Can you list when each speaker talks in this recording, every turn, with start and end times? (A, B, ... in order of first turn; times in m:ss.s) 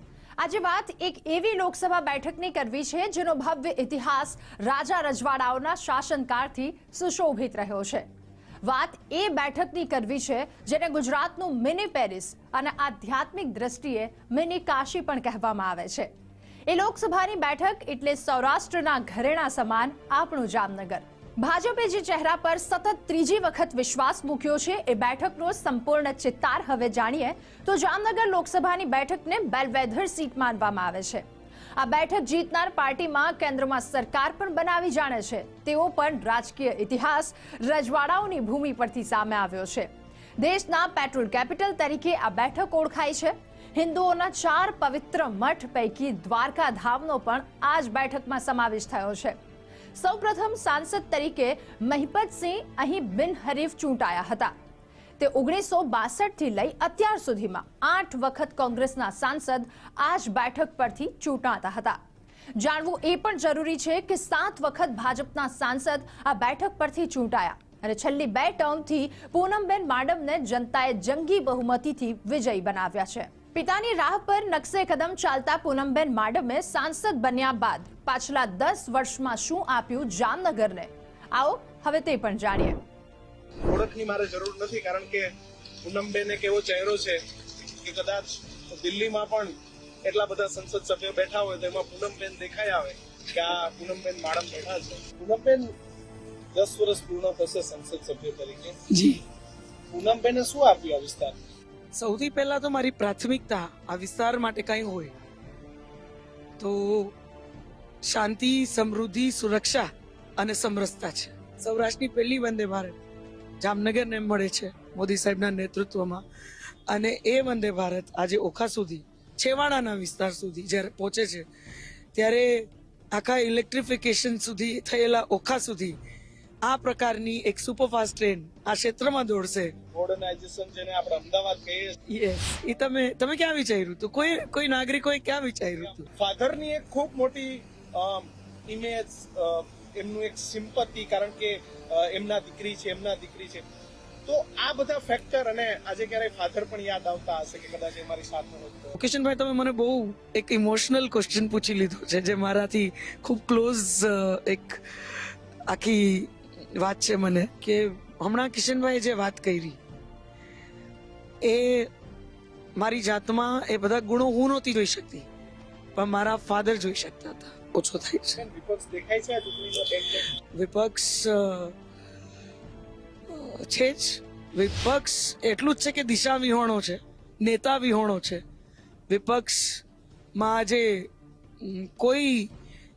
0:00.4-0:08.1 A
0:08.6-0:16.1 A
0:16.7-0:31.2 A
0:31.8-0:39.9 A
0:40.4-0:49.4 A
0:50.0-0:54.5 A
0:55.2-1:02.0 A
1:02.6-1:22.8 A
1:23.7-1:25.3 B
1:25.8-1:35.7 B
1:36.6-1:38.8 B
1:38.9-1:39.2 C
1:39.9-1:41.4 B
1:41.9-1:45.1 C
1:46.6-1:47.1 C
1:48.0-1:53.0 C
1:53.6-1:56.2 C
1:56.9-2:01.4 C
2:02.2-2:06.0 C
2:06.6-2:09.7 C
2:09.9-2:12.0 B
2:12.1-2:16.1 C
2:16.2-2:23.7 B
2:24.3-2:28.9 B
2:29.0-2:34.8 C
2:35.7-2:39.8 C
2:41.4-2:41.9 C
2:42.8-2:45.3 C
2:46.0-2:48.4 C
2:48.4-2:50.3 B
2:50.5-2:51.7 C
2:53.3-2:58.4 C
2:59.1-2:59.8 C
3:00.4-3:01.1 C
3:01.6-3:02.5 C